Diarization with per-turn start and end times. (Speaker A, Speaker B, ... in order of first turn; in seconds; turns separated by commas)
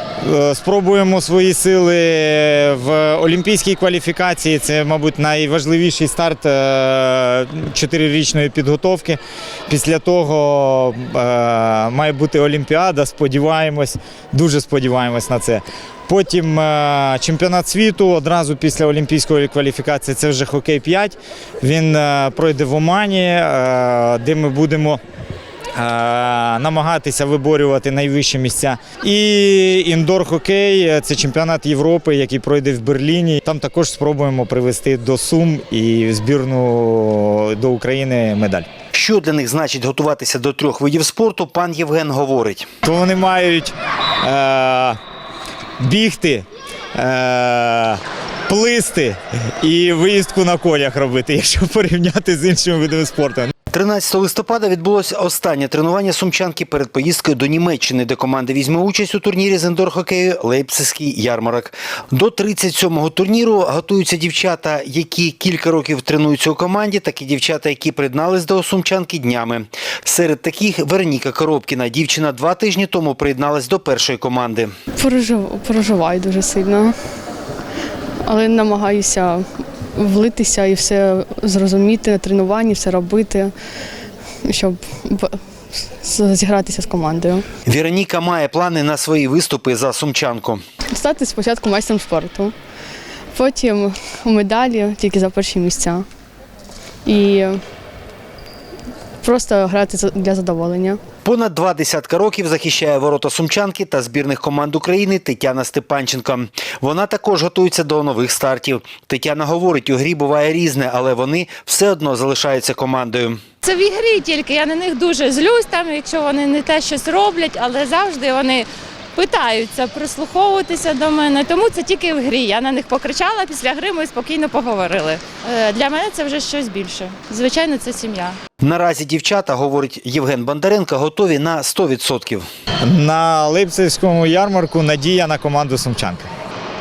Speaker A: 0.2-25.0, Speaker A: 25.7-38.7, Speaker B: 38.9-42.7, Speaker A: 42.8-45.0, Speaker A: 45.8-53.5, Speaker B: 53.7-74.7, Speaker C: 75.0-77.0, Speaker C: 78.2-83.5, Speaker C: 84.4-87.5, Speaker B: 87.7-90.6, Speaker C: 90.9-92.5, Speaker C: 93.3-96.0, Speaker C: 97.0-97.6, Speaker C: 99.2-101.0, Speaker B: 101.2-113.4, Speaker D: 113.6-128.4, Speaker B: 128.6-132.5, Speaker A: 132.8-136.3